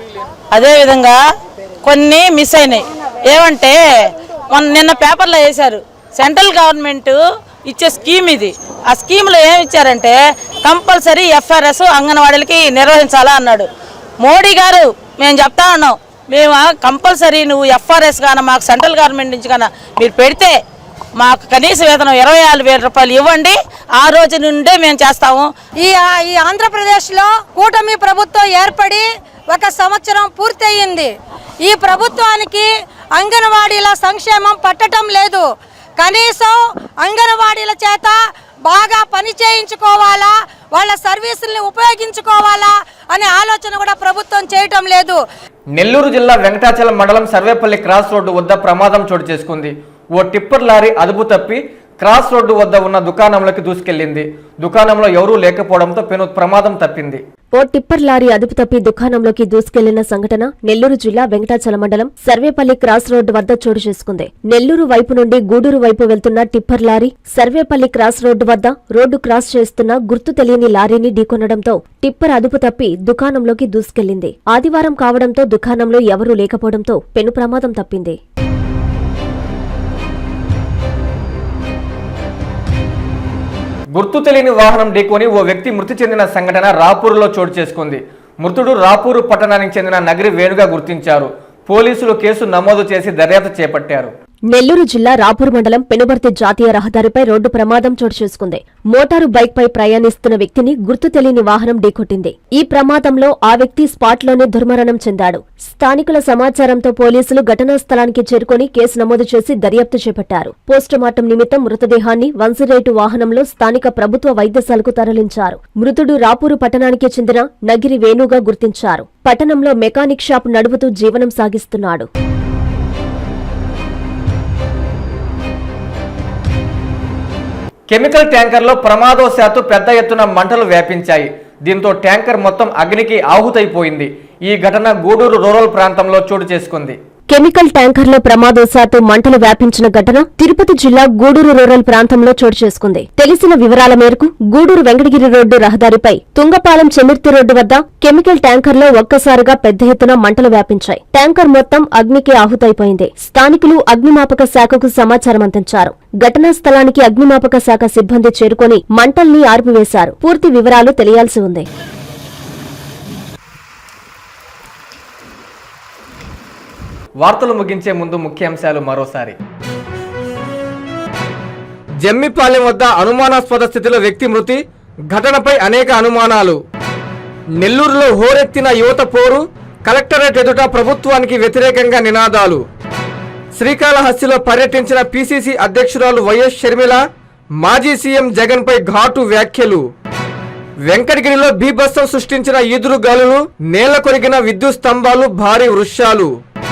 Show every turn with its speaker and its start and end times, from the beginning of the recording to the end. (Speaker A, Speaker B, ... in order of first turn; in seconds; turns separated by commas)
Speaker A: 0.5-1.2, Speaker A: 1.8-13.7, Speaker A: 14.2-20.6, Speaker A: 21.2-25.5, Speaker B: 25.8-31.1, Speaker B: 31.7-35.5, Speaker B: 36.0-45.2, Speaker C: 45.8-57.2, Speaker D: 57.5-78.2, Speaker C: 84.0-94.1, Speaker D: 94.5-122.1, Speaker C: 127.9-137.0, Speaker D: 137.3-161.7, Speaker C: 167.2-169.4, Speaker C: 172.0-176.6, Speaker C: 177.6-182.6, Speaker C: 183.6-187.0, Speaker C: 187.6-189.8, Speaker C: 190.9-196.3